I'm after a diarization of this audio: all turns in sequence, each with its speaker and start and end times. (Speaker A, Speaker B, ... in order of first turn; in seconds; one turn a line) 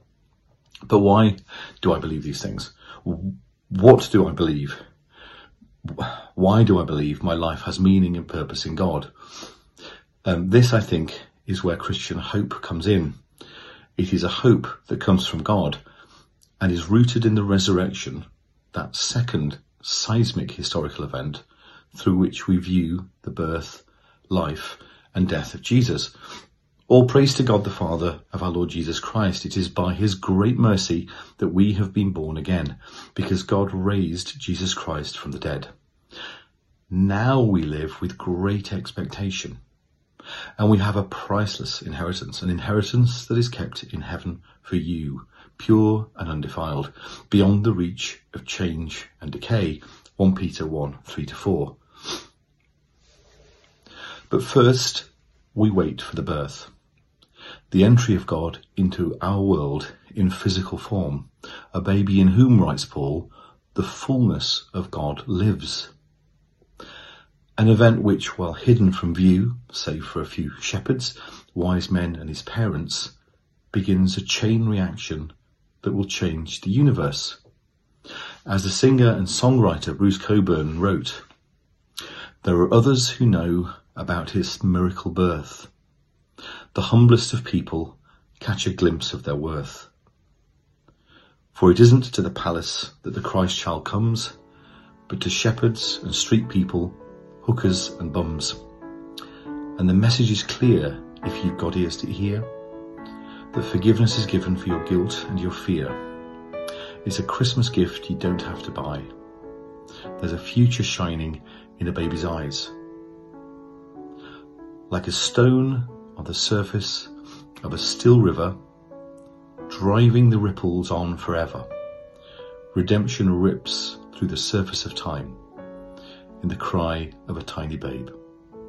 Speaker A: 0.9-4.8
Speaker A: 5.8-9.1
Speaker A: 10.2-13.2
Speaker A: 14.0-15.8
Speaker A: 16.6-21.4
Speaker A: 21.9-26.1
Speaker A: 26.9-35.7
Speaker A: 36.9-39.6
Speaker A: 40.6-51.8
Speaker A: 54.3-56.7
Speaker A: 57.7-65.9
Speaker A: 67.6-73.1
Speaker A: 73.7-77.4
Speaker A: 78.5-81.2
Speaker A: 82.4-85.7
Speaker A: 86.7-89.9
Speaker A: 91.5-94.3
Speaker A: 95.1-98.6
Speaker A: 99.8-102.5
Speaker A: 103.5-106.0
Speaker A: 107.0-109.1
Speaker A: 110.2-112.7
Speaker A: 114.9-117.1
Speaker A: 117.6-118.5
Speaker A: 119.7-121.7
Speaker A: 122.7-125.4
Speaker A: 126.4-128.1